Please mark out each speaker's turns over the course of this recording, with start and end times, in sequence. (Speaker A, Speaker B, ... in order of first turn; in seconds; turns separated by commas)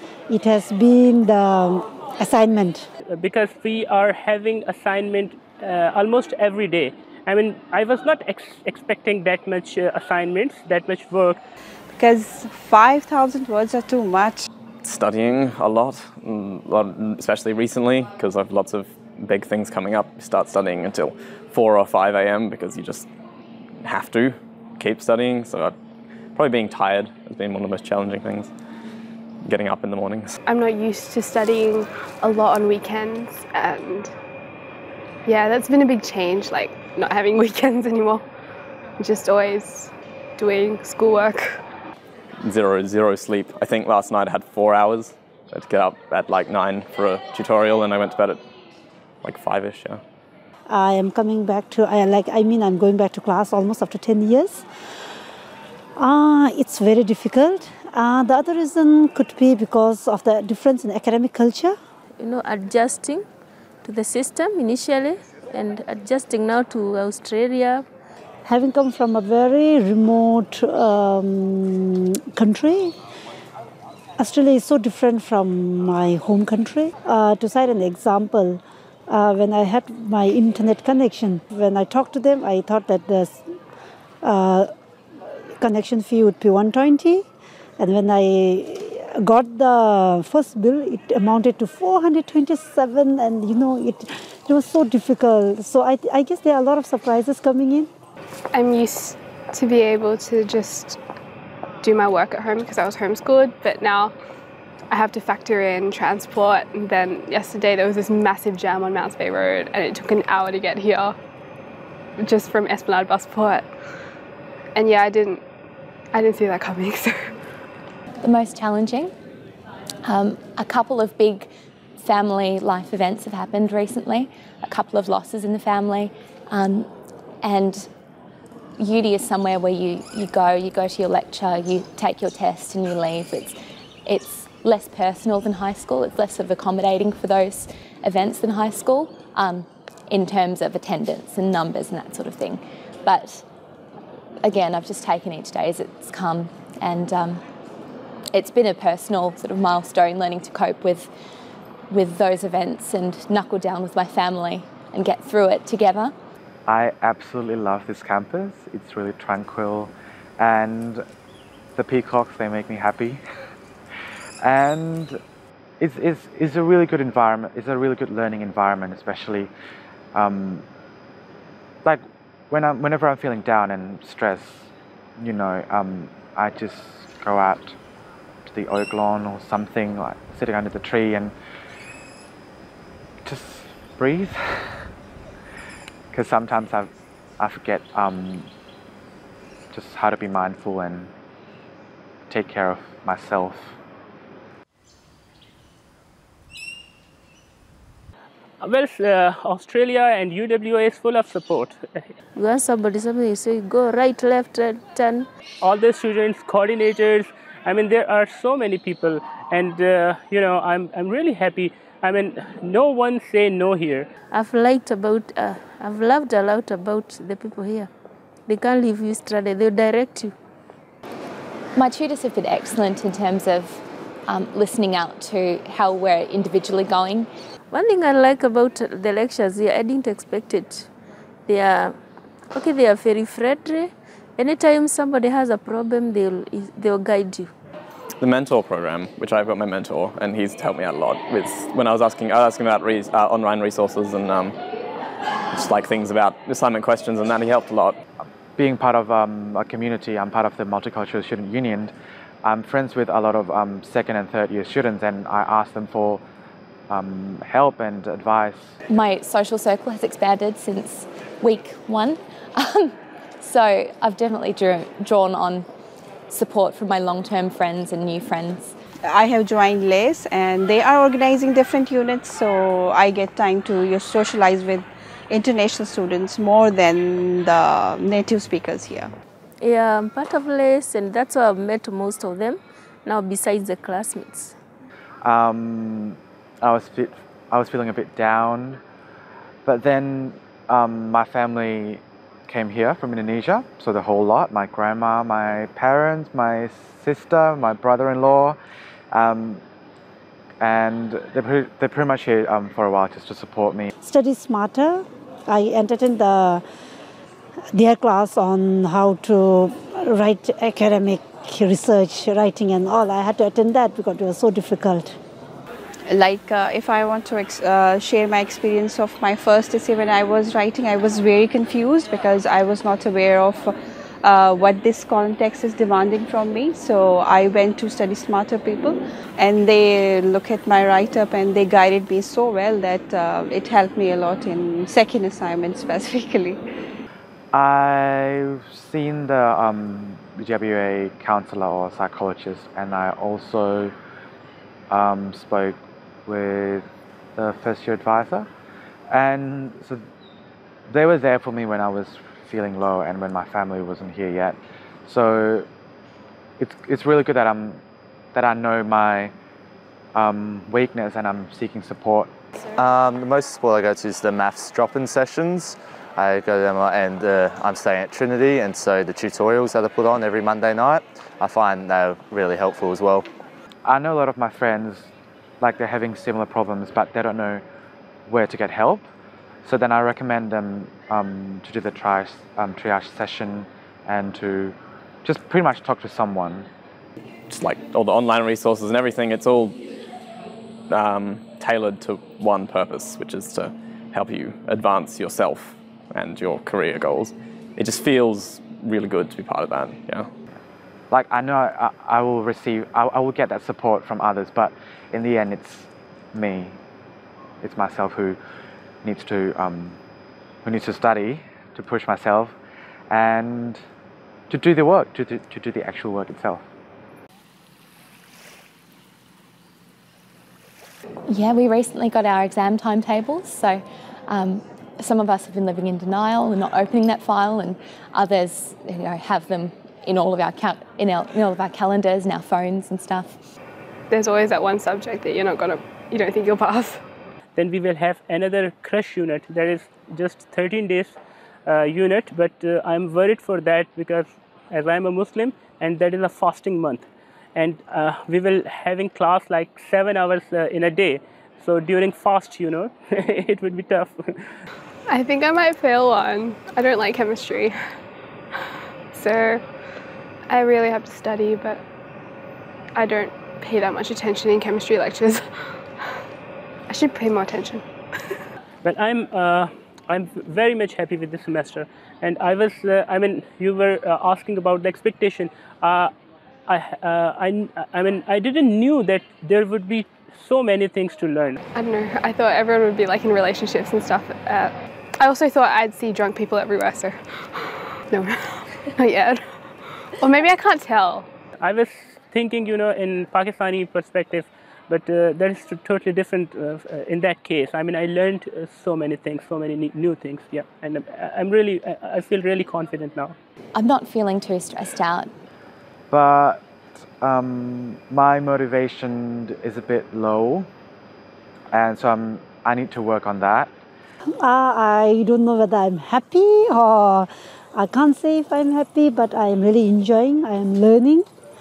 Speaker A: 0.3-2.9, Speaker B: 3.0-11.4, Speaker C: 11.9-14.4, Speaker D: 14.8-23.1, Speaker D: 23.8-25.7, Speaker D: 26.3-28.5, Speaker D: 29.4-30.4, Speaker E: 30.4-34.1, Speaker E: 35.2-38.2, Speaker E: 39.0-41.6, Speaker D: 42.4-48.4, Speaker D: 49.2-50.0, Speaker A: 50.7-54.6, Speaker A: 56.0-61.8, Speaker F: 62.2-63.2, Speaker F: 63.8-67.8, Speaker A: 68.4-73.0, Speaker A: 74.2-83.4, Speaker A: 84.2-84.7, Speaker A: 85.6-87.2, Speaker A: 87.8-97.9, Speaker E: 98.5-101.0, Speaker E: 101.8-104.1, Speaker E: 104.9-111.2, Speaker E: 112.2-113.7, Speaker E: 114.7-115.4, Speaker E: 116.1-117.3, Speaker G: 118.2-119.1, Speaker G: 120.0-126.9, Speaker G: 127.4-127.9, Speaker G: 128.8-143.4, Speaker G: 144.4-147.4, Speaker G: 148.3-151.1, Speaker G: 151.9-156.1, Speaker H: 156.7-161.0, Speaker H: 161.8-163.2, Speaker H: 164.4-165.2, Speaker H: 165.8-169.5, Speaker H: 170.1-170.7, Speaker H: 171.8-177.8, Speaker H: 178.4-181.3, Speaker H: 183.2-184.7, Speaker H: 186.1-188.5, Speaker H: 189.7-191.1, Speaker H: 192.3-193.7, Speaker B: 198.6-202.1, Speaker F: 202.3-205.3, Speaker B: 205.6-214.1, Speaker F: 214.3-217.9, Speaker F: 218.5-220.3, Speaker G: 221.7-227.3, Speaker F: 227.7-230.9, Speaker F: 231.5-231.9, Speaker F: 232.5-237.5, Speaker D: 238.2-244.6, Speaker D: 245.5-248.0, Speaker H: 248.6-256.2, Speaker H: 256.9-258.7, Speaker G: 258.9-265.7, Speaker G: 266.3-268.7, Speaker C: 269.0-279.1, Speaker F: 279.6-284.6, Speaker H: 285.2-288.8, Speaker H: 289.6-298.6, Speaker H: 299.1-299.6, Speaker H: 300.6-303.9, Speaker A: 304.0-306.6, Speaker A: 307.7-315.2, Speaker C: 316.1-336.6, Speaker H: 337.5-343.9, Speaker H: 344.9-346.9, Speaker H: 347.4-348.5, Speaker H: 349.1-350.0, Speaker H: 350.9-355.7, Speaker H: 356.6-357.8, Speaker H: 358.3-359.3, Speaker H: 360.1-362.3, Speaker I: 362.8-373.3, Speaker H: 373.9-375.1, Speaker H: 375.6-377.6, Speaker H: 378.2-379.1, Speaker H: 379.6-386.7, Speaker D: 387.5-389.8, Speaker D: 390.9-400.3, Speaker H: 401.1-406.8, Speaker H: 407.6-408.4, Speaker H: 409.0-410.0, Speaker H: 410.6-412.6, Speaker H: 413.1-413.8, Speaker H: 414.5-416.6, Speaker G: 421.3-433.4, Speaker E: 434.1-437.0, Speaker B: 437.6-454.5, Speaker E: 455.1-457.8, Speaker E: 459.1-459.6, Speaker E: 460.5-461.8, Speaker E: 462.9-466.2, Speaker E: 466.9-468.4, Speaker B: 468.8-476.1, Speaker B: 476.7-481.6, Speaker E: 481.7-491.3, Speaker B: 491.6-503.4, Speaker G: 503.7-505.3, Speaker H: 506.1-506.6, Speaker H: 507.2-510.7, Speaker H: 511.7-513.7, Speaker A: 514.4-521.2